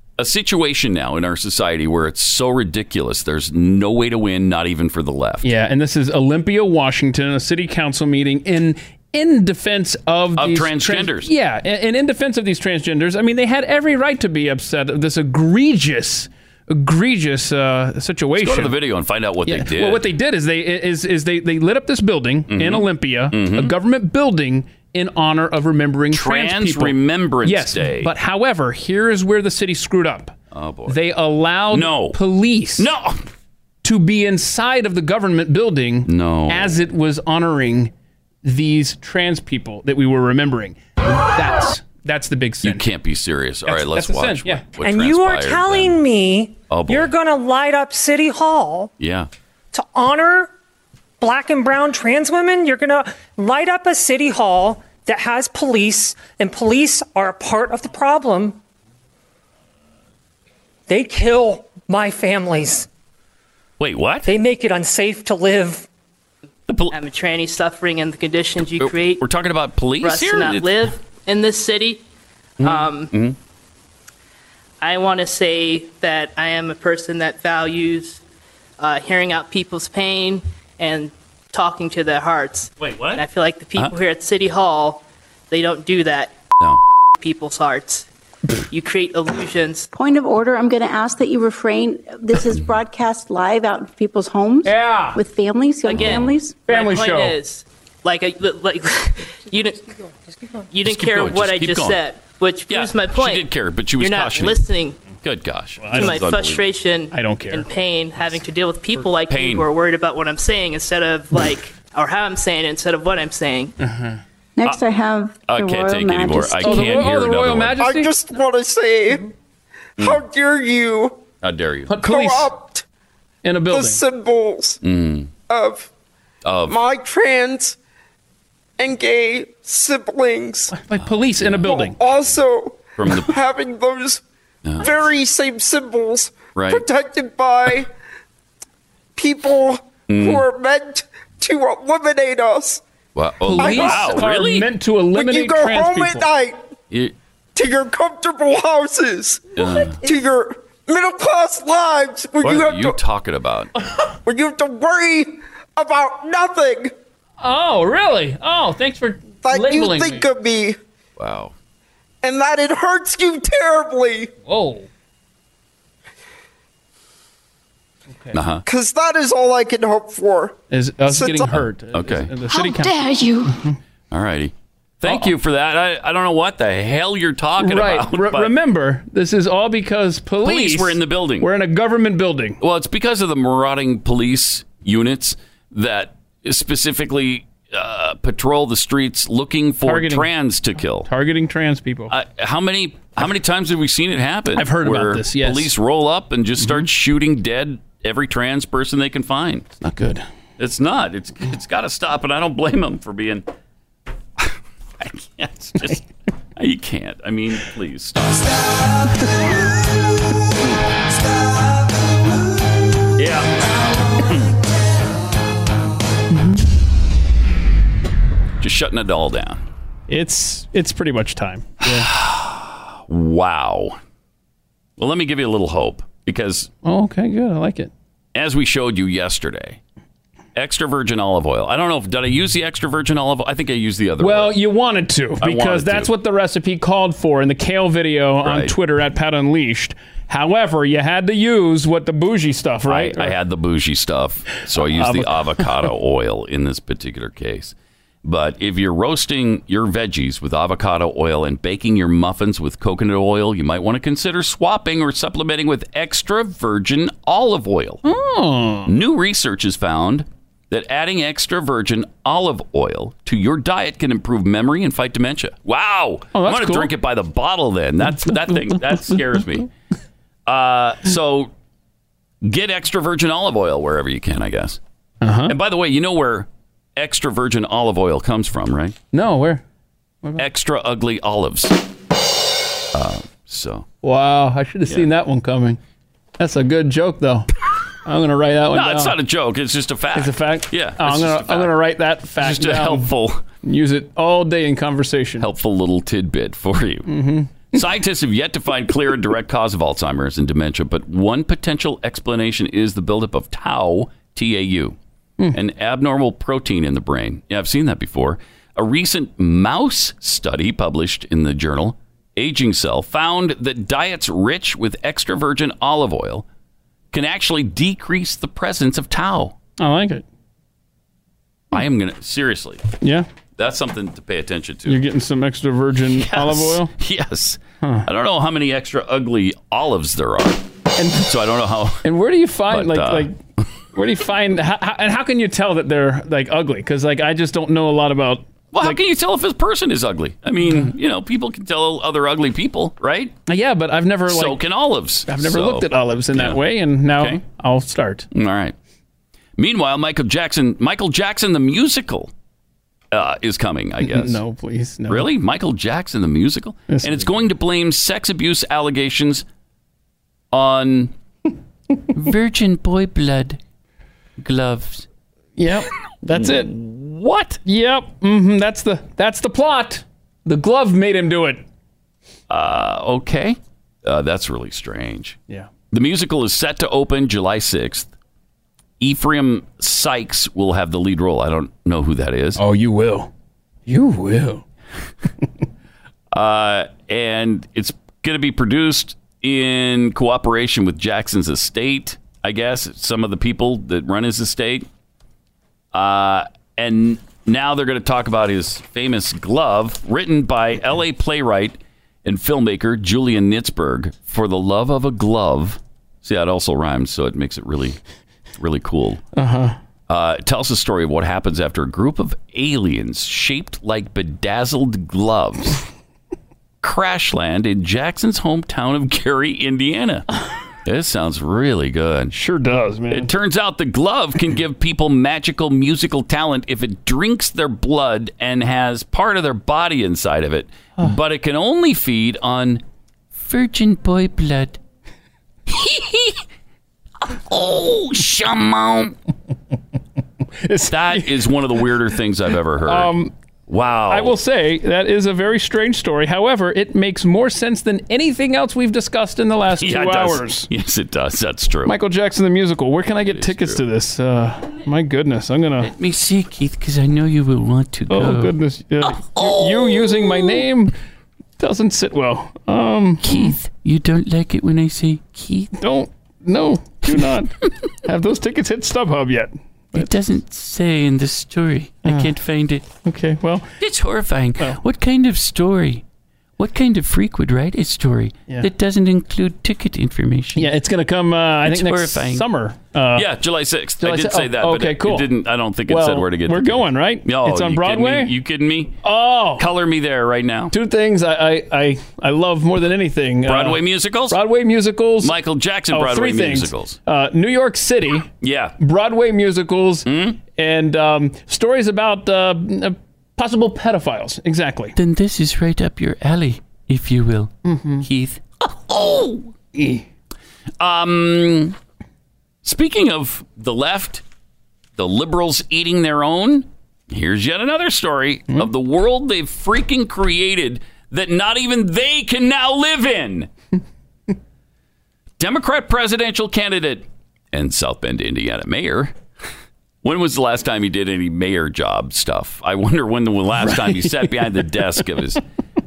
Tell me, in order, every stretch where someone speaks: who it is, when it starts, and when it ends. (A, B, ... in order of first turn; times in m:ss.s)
0:00.2-0:05.5 A
0:05.4-0:18.7 B
0:10.4-0:11.3 A
0:18.4-0:20.1 A
0:19.4-0:30.3 B
0:22.5-0:23.7 A
0:26.1-0:28.1 A
0:30.5-0:31.0 A
0:30.9-0:32.9 B
0:31.7-0:32.2 A
0:32.8-0:33.2 A
0:33.8-0:37.9 B
0:36.0-0:36.8 A
0:38.4-0:42.8 B
0:42.6-0:46.0 A
0:43.7-0:44.6 B
0:44.8-0:48.9 C
0:46.7-0:47.1 A
0:49.0-0:49.3 A
0:49.7-0:50.5 C
0:51.2-0:58.6 C
1:00.9-1:02.9 C
1:03.8-1:04.3 A
1:04.2-1:05.8 C
1:06.7-1:06.9 A
1:06.9-1:09.2 D
1:08.8-1:10.9 A
1:10.0-1:12.0 D
1:12.6-1:13.4 A
1:12.6-1:13.1 D
1:14.8-1:18.2 D
1:18.8-1:26.3 D
1:27.2-1:28.1 D
1:28.7-1:29.9 D
1:29.9-1:36.6 E
1:34.6-1:35.2 B
1:35.8-1:39.9 D
1:36.7-1:37.4 B
1:40.7-1:43.5 D
1:40.8-1:42.0 A
1:42.7-1:44.6 A
1:44.0-1:45.0 D
1:45.2-1:46.6 A
1:45.8-1:46.1 B
1:45.9-1:53.7 D
1:47.1-1:47.7 B
1:49.3-1:49.6 A
1:53.8-1:54.2 B
1:54.6-1:56.8 E
1:55.4-1:57.8 A
1:56.6-1:58.1 B
1:57.8-1:59.2 F
2:00.0-2:01.2 F
2:01.4-2:01.9 A
2:01.9-2:02.5 B
2:02.0-2:02.8 F
2:03.4-2:04.0 B
2:03.7-2:04.8 F
2:04.8-2:05.3 A
2:05.5-2:05.9 F
2:06.4-2:06.8 A
2:06.7-2:07.8 F
2:08.8-2:10.7 F
2:10.7-2:12.0 B
2:11.0-2:11.7 A
2:11.6-2:14.2 F
2:13.0-2:13.3 A
2:14.6-2:15.0 A
2:14.8-2:17.9 F
2:16.5-2:16.8 A
2:19.2-2:22.8 F
2:20.1-2:20.4 A
2:23.1-2:24.7 A
2:23.4-2:26.3 B
2:23.6-2:24.2 F
2:25.1-2:26.6 F
2:27.5-2:33.0 F
2:29.6-2:30.0 A
2:32.4-2:33.7 A
2:34.2-2:36.9 F
2:37.4-2:40.3 B
2:39.4-2:40.8 F
2:41.2-2:41.5 A
2:42.2-2:44.3 F
2:44.4-2:44.9 B
2:48.3-2:48.6 A
2:48.6-2:50.6 F
2:50.7-2:53.7 B
2:51.1-2:51.5 F
2:51.5-2:52.3 A
2:54.1-2:58.5 A
2:57.6-3:02.6 B
3:00.4-3:01.5 A
3:02.6-3:11.1 A
3:09.8-3:10.3 B
3:11.0-3:12.1 B
3:12.1-3:19.7 A
3:14.6-3:15.7 B
3:16.6-3:16.8 B
3:19.8-3:20.2 B
3:20.6-3:23.4 A
3:24.4-3:26.0 A
3:26.6-3:28.5 A
3:33.2-3:34.5 A
3:36.3-3:36.6 B
3:38.6-3:39.6 A
3:40.1-3:42.1 B
3:41.8-3:44.0 A
3:45.0-3:46.7 A
3:46.8-3:47.9 B
3:48.3-3:49.8 A
3:50.5-3:54.6 A
3:54.2-4:03.3 B
3:55.4-3:56.1 A
3:58.4-3:58.7 A
4:02.9-4:07.7 A
4:04.8-4:05.7 B
4:08.2-4:18.0 A
4:18.0-4:18.9 B
4:18.9-4:29.7 A
4:26.3-4:26.9 B
4:28.1-4:29.4 B
4:30.4-4:31.5 A
4:32.4-4:34.8 A
4:35.2-4:35.5 B
4:35.5-4:39.0 A
4:39.1-4:39.6 B
4:40.4-4:41.8 A
4:42.9-4:43.8 A
4:44.0-4:45.8 B
4:46.4-4:47.5 B
4:48.0-4:49.1 B
4:48.7-4:51.8 A
4:50.2-4:53.1 B
4:52.4-4:53.4 A
4:53.6-4:55.5 B
4:55.4-4:57.1 A
4:57.1-4:57.7 B
4:57.7-5:05.0 A
5:05.5-5:16.4 A
5:17.1-5:19.5 A
5:19.8-5:20.2 B
5:21.7-5:22.8 A
5:23.0-5:23.3 B
5:23.6-5:25.0 A
5:24.8-5:26.9 B
5:26.1-5:30.6 A
5:31.0-5:31.3 B
5:31.2-5:32.0 A
5:32.0-5:33.4 B
5:32.7-5:33.6 A
5:33.9-5:39.0 B
5:38.7-5:43.3 A
5:40.6-5:40.9 B
5:43.5-5:44.6 B
5:44.3-5:46.6 A
5:45.3-5:48.3 B
5:48.3-5:48.7 A
5:49.6-5:52.3 A
5:53.1-5:54.4 A
5:54.0-5:55.3 B
5:55.1-5:59.4 A
5:56.9-5:57.3 B
6:00.5-6:01.1 A
6:02.1-6:03.6 A
6:04.4-6:05.0 A
6:05.6-6:06.7 B
6:06.3-6:07.6 A
6:07.6-6:11.6 B
6:12.5-6:15.4 A
6:15.9-6:18.1 A
6:19.0-6:22.6 A
6:22.6-6:23.3 B
6:23.9-6:24.6 B
6:26.3-6:34.9 A
6:35.9-6:48.0 A
6:48.6-6:49.2 A
6:49.3-6:49.8 B
6:50.1-6:55.8 A
6:56.8-7:00.2 A
7:00.8-7:02.3 A
7:02.3-7:03.3 B
7:03.1-7:12.8 A
7:13.3-7:14.8 A
7:15.7-7:16.4 A
7:17.3-7:19.1 A
7:20.6-7:21.4 B
7:20.9-7:23.1 A
7:22.8-7:23.3 B
7:23.7-7:24.3 A
7:24.1-7:30.7 B
7:29.8-7:32.0 A
7:31.8-7:35.9 B
7:33.3-7:33.8 A
7:35.8-7:40.6 A
7:38.1-7:40.9 B
7:41.6-7:43.6 B
7:43.2-7:45.7 A
7:45.8-7:47.5 B
7:48.0-7:50.1 B
7:49.9-7:52.8 A
7:52.0-7:52.3 B
7:53.0-7:53.7 B
7:53.8-7:56.0 A
7:56.6-8:00.7 A
8:00.6-8:03.2 B
8:01.6-8:02.4 A
8:03.1-8:09.0 A
8:04.0-8:05.3 B
8:05.9-8:08.3 B
8:09.0-8:09.6 B
8:09.6-8:10.7 A
8:10.7-8:15.3 B
8:13.4-8:14.4 A
8:15.2-8:17.0 A
8:15.9-8:18.3 B
8:18.4-8:18.7 A
8:18.8-8:25.0 B
8:20.0-8:20.4 A
8:25.0-8:29.5 A
8:27.6-8:28.0 B
8:29.7-8:30.0 B
8:30.8-8:31.8 A
8:32.6-8:34.2 A
8:35.0-8:43.5 A
8:45.4-8:49.1 A
8:50.0-8:55.4 A
8:53.6-8:54.4 B